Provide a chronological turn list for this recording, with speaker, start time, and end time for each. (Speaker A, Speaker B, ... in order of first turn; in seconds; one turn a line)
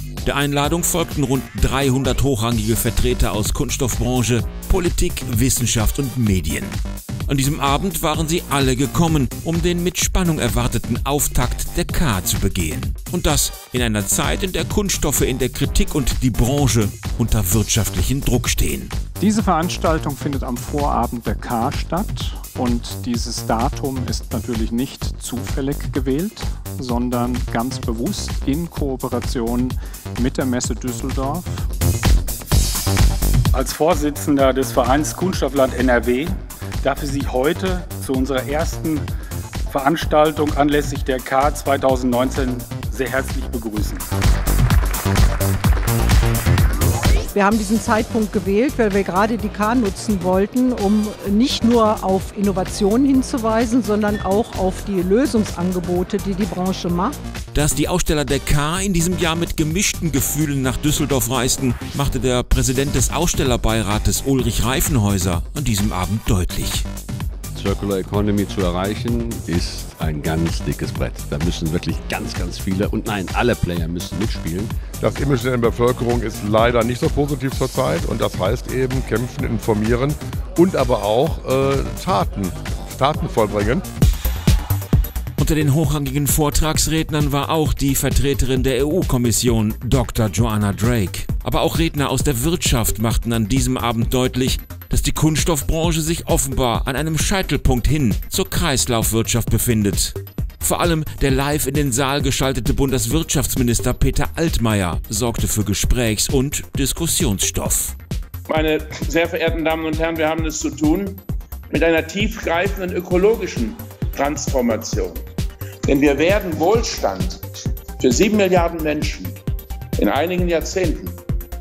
Speaker A: 0.2-18.9
Speaker B: 19.2-31.5
Speaker C: 33.5-36.3
Speaker C: 36.8-39.0
Speaker C: 39.7-44.0
Speaker D: 47.3-57.2
Speaker A: 57.5-66.8
Speaker E: 67.5-74.7
Speaker F: 75.0-83.8
Speaker A: 85.4-107.9
Speaker G: 108.5-115.2
Speaker G: 115.8-117.5
Speaker G: 118.0-119.4
Speaker G: 120.0-121.2